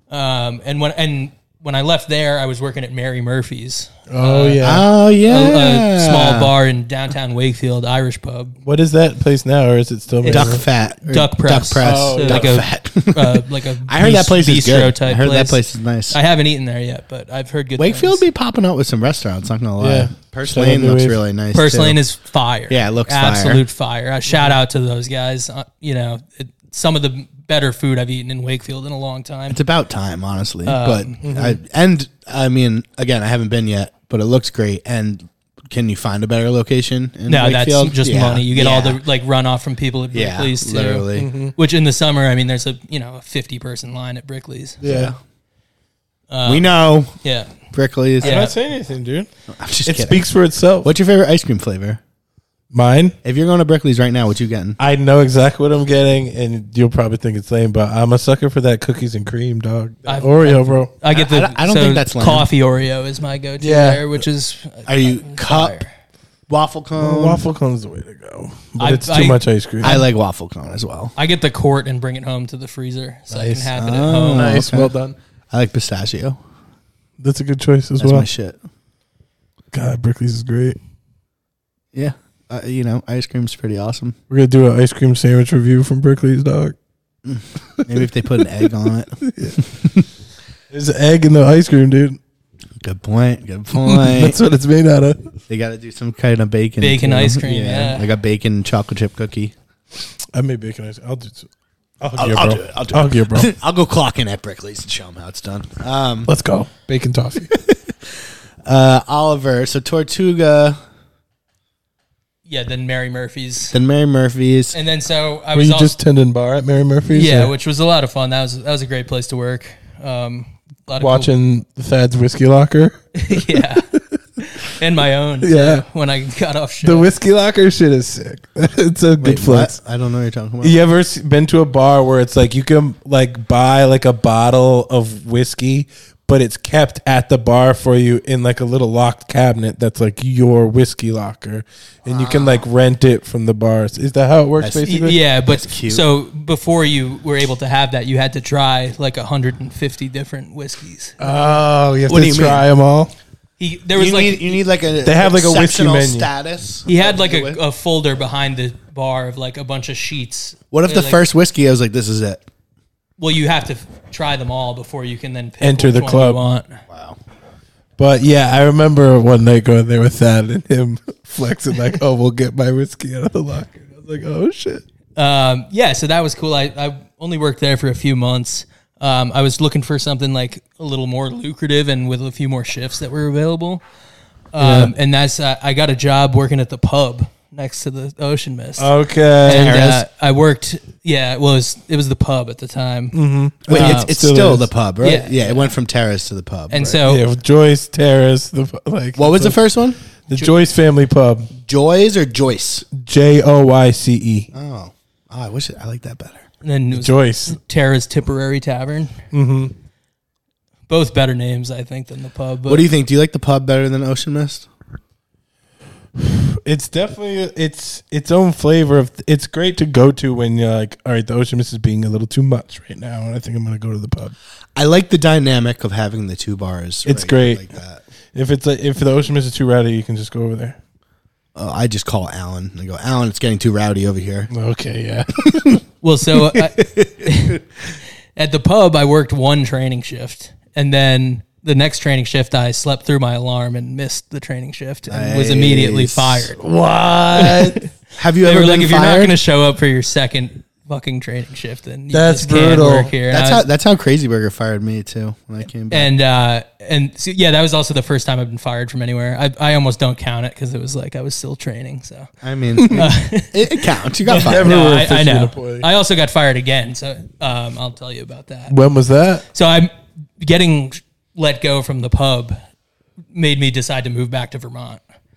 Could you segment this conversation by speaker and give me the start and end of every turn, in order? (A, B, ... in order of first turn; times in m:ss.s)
0:00.1-0:08.6 A
0:04.1-0:04.9 B
0:04.6-0:06.5 C
0:08.6-0:10.6 B
0:10.2-0:18.2 A
0:10.3-0:16.2 C
0:11.8-0:12.6 B
0:17.8-0:22.0 C
0:19.8-0:21.2 B
0:21.5-0:29.6 A
0:22.7-0:23.6 C
0:29.5-0:39.0 C
0:30.7-0:31.2 A
0:31.2-0:31.6 B
0:37.3-0:44.8 A
0:40.1-0:41.3 C
0:41.2-0:41.5 B
0:44.8-0:45.1 B
0:44.8-0:45.2 C
0:46.3-0:46.7 A
0:46.4-0:47.1 C
0:47.2-0:47.5 A
0:47.7-0:48.4 C
0:48.2-0:48.5 A
0:48.2-0:49.3 B
0:49.5-0:50.3 C
0:49.8-0:50.9 B
0:50.8-0:52.0 C
0:52.7-0:53.2 B
0:53.2-0:54.8 C
0:54.8-1:00.9 B
1:00.1-1:05.9 A
1:01.1-1:02.5 C
1:03.6-1:04.2 B
1:04.9-1:05.8 C
1:06.5-1:07.4 C
1:07.0-1:10.0 B
1:08.8-1:10.0 A
1:09.8-1:11.1 C
1:11.2-1:14.6 A
1:13.3-1:13.7 B
1:13.8-1:14.9 C
1:14.3-1:15.2 B
1:15.5-1:16.4 C
1:17.2-1:18.3 B
1:18.0-1:18.6 C
1:19.7-1:20.8 B
1:21.9-1:24.2 C
1:24.3-1:26.8 B
1:27.2-1:30.1 C
1:29.2-1:29.6 B
1:30.7-1:32.2 B
1:32.8-1:34.4 C
1:33.8-1:35.3 B
1:35.5-1:39.5 C
1:36.8-1:38.1 A
1:40.3-1:41.5 B
1:42.0-1:43.5 B
1:42.2-1:46.3 C
1:46.3-1:47.5 B
1:48.6-1:50.8 C
1:52.5-1:53.8 A
1:53.7-1:54.8 C
1:54.7-1:56.0 A
1:55.5-1:57.5 B
1:57.1-2:01.3 A
2:01.0-2:03.6 B
2:03.2-2:03.9 A
2:04.6-2:07.1 A
2:05.4-2:05.8 B
2:06.8-2:09.8 B
2:09.2-2:10.8 C
2:10.6-2:25.2 B
2:22.1-2:22.6 C
2:24.6-2:26.0 C
2:24.8-2:31.3 A
2:31.2-2:33.1 B
2:32.1-2:32.6 C
2:33.6-2:34.6 A
2:34.0-2:37.6 C
2:35.0-2:36.3 B
2:36.9-2:41.2 A
2:40.7-2:42.4 C
2:43.2-2:46.8 A
2:45.6-2:46.4 B
2:46.9-2:47.2 C
2:48.0-2:54.8 B
2:55.2-3:03.8 A
3:04.5-3:08.9 A
3:04.6-3:04.9 B
3:08.8-3:09.7 B
3:09.4-3:13.2 A
3:09.5-3:10.0 C
3:13.1-3:14.7 B
3:13.7-3:17.0 C
3:13.7-3:14.1 A
3:15.0-3:15.7 A
3:16.7-3:17.2 A
3:17.0-3:19.6 B
3:19.2-3:20.0 C
3:20.3-3:21.5 B
3:21.6-3:22.9 C
3:22.9-3:24.5 B
3:24.5-3:26.4 C
3:26.6-3:29.2 A
3:26.9-3:27.6 B
3:29.3-3:29.7 B
3:30.9-3:32.9 A
3:32.7-3:34.7 C
3:36.2-3:44.3 B
3:44.8-3:48.0 C
3:47.1-3:47.6 B
3:48.3-3:50.8 B
3:51.6-3:54.5 C
3:54.5-3:55.8 B
3:55.4-3:55.8 C
3:56.0-3:57.6 A
3:56.4-3:57.6 C
3:58.4-4:06.6 A
4:05.1-4:06.5 C
4:06.6-4:07.8 B
4:07.4-4:07.9 A
4:08.2-4:09.4 C
4:08.4-4:13.6 A
4:12.1-4:13.1 B
4:13.3-4:16.1 C
4:15.9-4:22.3 A
4:22.4-4:24.8 C
4:22.8-4:23.1 B
4:22.9-4:28.8 A
4:24.3-4:25.9 B
4:28.7-4:29.4 B
4:29.5-4:32.6 A
4:33.3-4:35.0 A